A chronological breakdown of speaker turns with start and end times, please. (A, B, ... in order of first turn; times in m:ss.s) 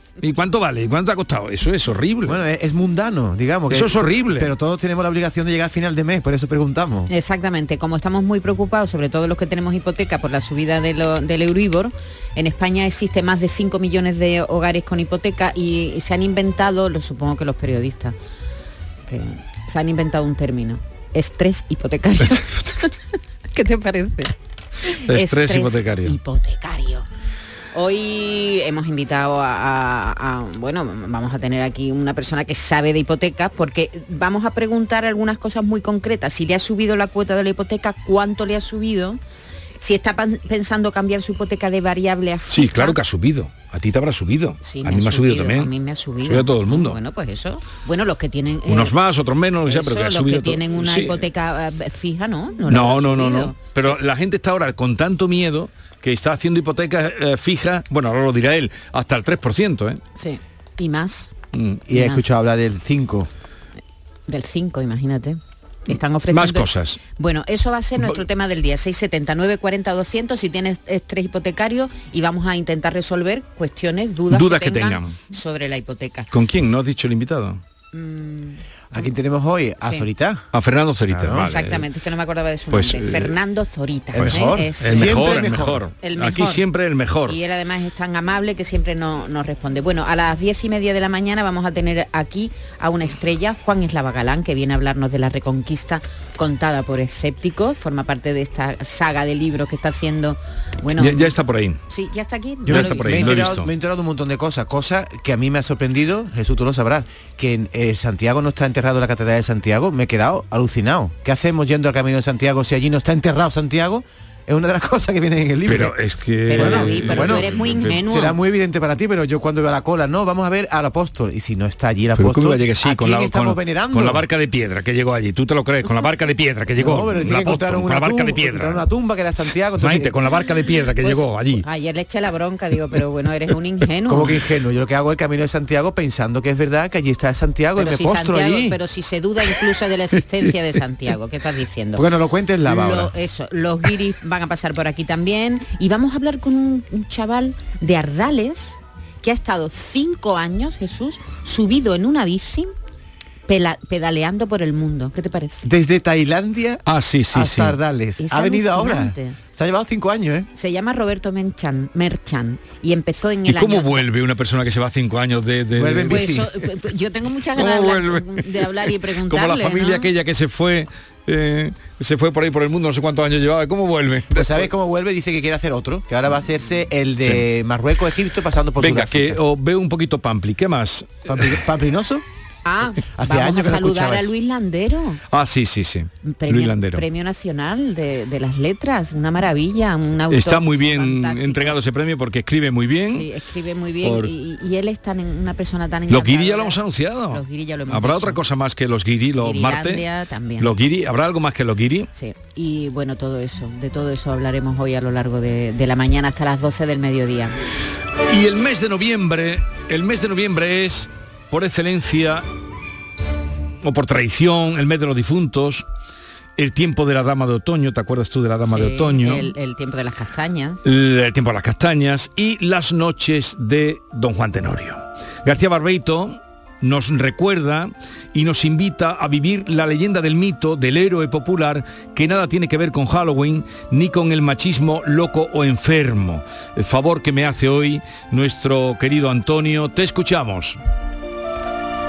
0:00.2-0:02.4 A
0:02.2-0:07.1 B
0:03.7-0:04.5 A
0:07.1-0:18.1 C
0:19.1-0:22.9 C
0:23.5-0:24.3 C
0:25.1-0:26.2 A
0:25.1-0:27.0 C
0:27.7-0:39.2 C
0:39.8-0:43.0 C
0:42.5-0:45.7 A
0:44.6-0:48.9 C
0:46.2-0:47.0 A
0:48.7-0:51.3 A
0:49.6-0:53.6 C
0:52.7-1:00.0 A
1:00.2-1:01.3 C
1:01.5-1:01.8 A
1:01.9-1:03.3 B
1:01.9-1:02.3 C
1:04.3-1:06.7 C
1:05.9-1:07.0 A
1:07.2-1:16.3 C
1:14.3-1:15.2 A
1:16.3-1:17.6 A
1:17.9-1:19.1 C
1:18.9-1:20.4 B
1:19.8-1:20.1 C
1:20.5-1:21.8 A
1:21.1-1:21.5 B
1:21.4-1:26.6 C
1:22.7-1:23.3 A
1:24.1-1:27.4 A
1:24.1-1:25.8 B
1:27.2-1:41.4 C
1:40.9-1:41.8 A
1:41.9-1:43.5 C
1:42.6-1:55.9 B
1:42.7-1:43.7 A
1:55.6-1:58.0 A
1:56.5-1:58.4 C
1:56.5-2:04.2 B
2:02.2-2:08.8 A
2:06.8-2:10.2 B
2:09.8-2:11.6 A
2:11.0-2:14.4 C
2:14.1-2:18.8 B
2:17.8-2:22.1 C
2:22.0-2:23.1 B
2:22.6-2:32.7 C
2:33.5-2:35.6 C
2:35.6-2:40.5 B
2:36.9-2:37.8 A
2:38.2-2:39.4 C
2:40.5-2:44.0 C
2:43.4-2:46.4 A
2:45.8-2:46.4 B
2:46.0-2:50.0 C
2:47.5-2:54.7 A
2:54.3-2:59.4 B
2:57.2-2:57.4 A
2:58.8-3:01.2 A
3:01.2-3:02.2 B
3:02.6-3:05.2 C
3:03.1-3:04.3 B
3:05.3-3:07.0 A
3:06.2-3:11.8 C
3:10.3-3:13.3 A
3:13.1-3:16.8 C
3:14.0-3:14.3 A
3:16.1-3:20.0 A
3:17.3-3:18.4 C
3:19.4-3:20.7 C
3:20.6-3:22.1 A
3:22.1-3:27.6 C
3:28.3-3:32.4 A
3:33.8-3:35.8 A
3:36.6-3:39.5 A
3:38.7-3:40.8 C
3:40.8-4:00.8 A